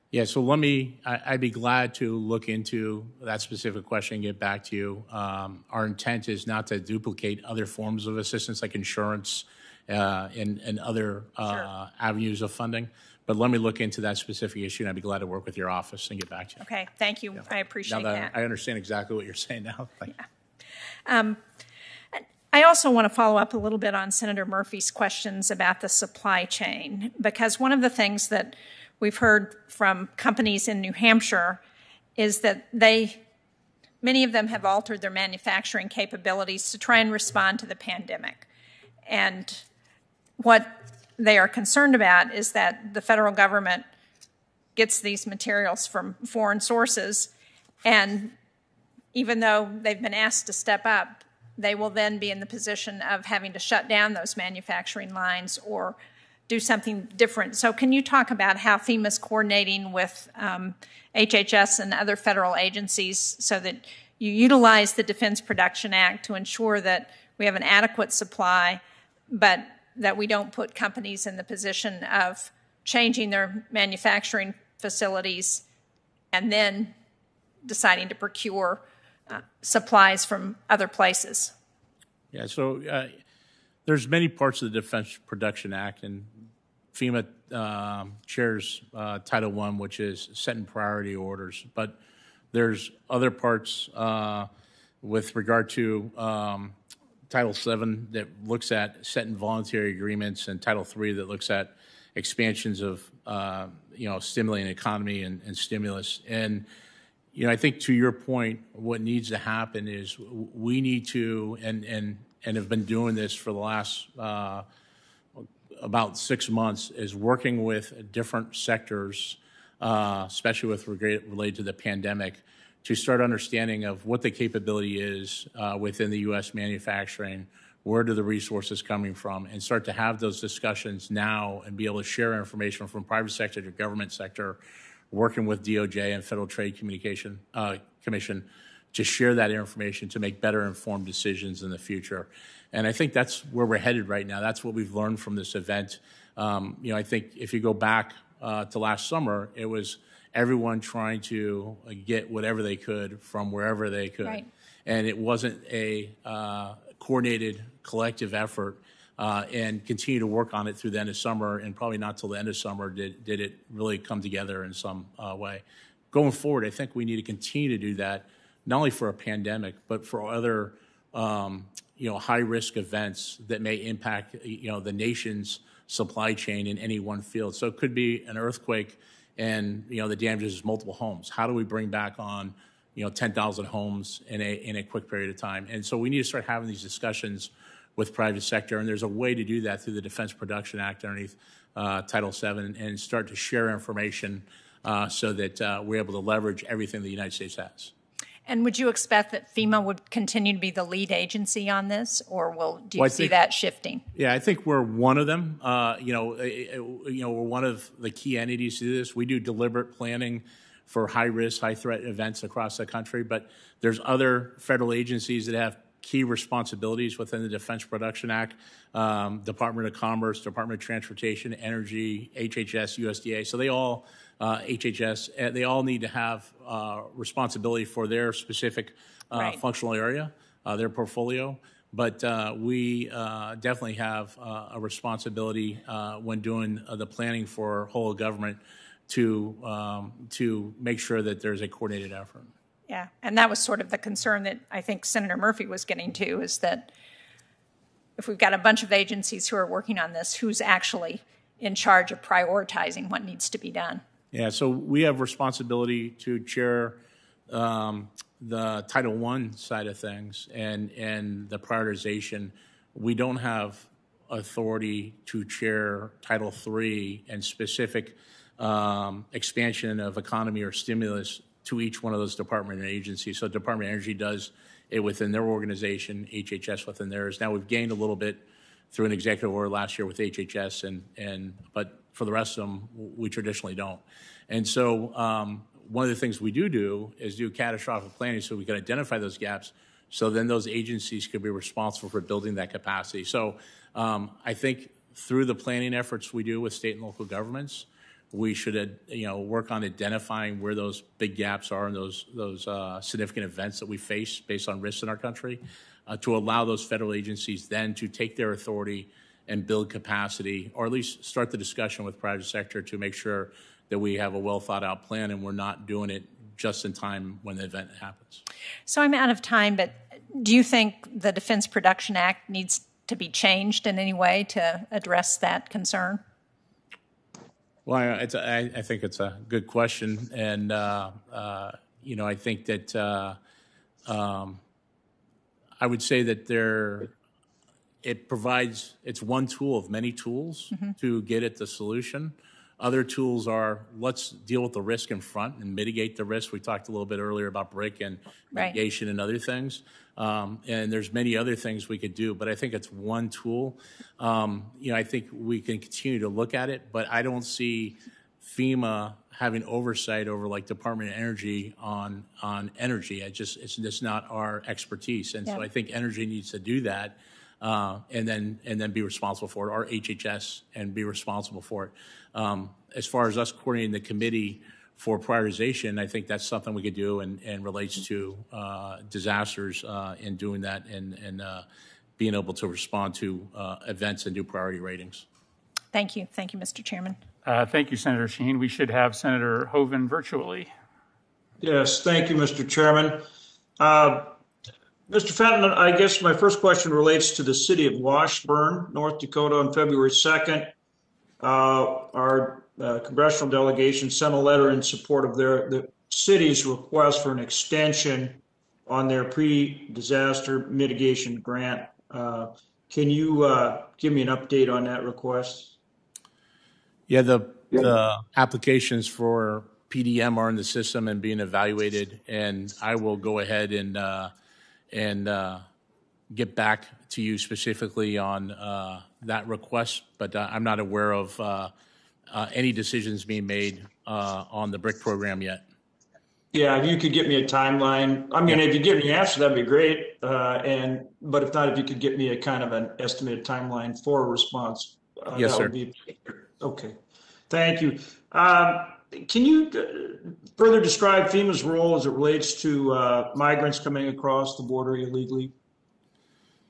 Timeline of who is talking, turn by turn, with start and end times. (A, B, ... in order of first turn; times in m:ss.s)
0:00.1-0:16.6 A
0:16.6-0:18.3 B
0:17.9-0:20.1 A
0:21.1-0:21.4 B
0:22.5-0:31.6 B
0:32.2-0:33.2 B
0:34.0-0:38.5 B
0:39.1-0:39.6 B
0:40.4-0:43.8 B
0:44.8-0:47.3 B
0:47.8-0:48.4 B
0:49.1-0:56.0 B
0:56.5-1:15.6 B
1:16.3-1:16.9 B
1:17.6-1:21.5 B
1:22.3-1:23.2 A
1:23.9-1:26.3 A
1:26.9-1:32.0 A
1:32.5-1:34.5 A
1:35.0-1:36.8 A
1:37.3-1:46.7 A
1:47.3-1:54.6 A
1:55.8-2:14.6 A
2:15.1-3:17.9 A
3:18.5-3:24.0 B
3:23.0-3:23.4 A
3:24.1-4:02.5 A
3:49.4-3:49.6 B
4:02.9-4:06.9 B
4:08.2-4:14.0 B
4:14.3-5:18.4 A
5:18.9-5:26.2 B
5:27.9-5:33.4 A
5:34.1-5:34.6 A
5:35.8-5:37.1 A
5:38.0-6:21.6 A
6:22.2-6:25.2 A
6:25.9-6:27.2 B
6:27.4-6:30.7 C
6:31.6-6:33.2 D
6:33.8-6:34.4 D
6:35.1-6:40.7 D
6:41.4-6:55.8 D
6:57.1-7:04.3 A
7:04.9-7:05.6 A
7:06.3-7:11.7 A
7:12.3-7:15.7 A
7:16.5-7:27.0 D
7:25.4-7:25.7 A
7:27.5-7:35.5 D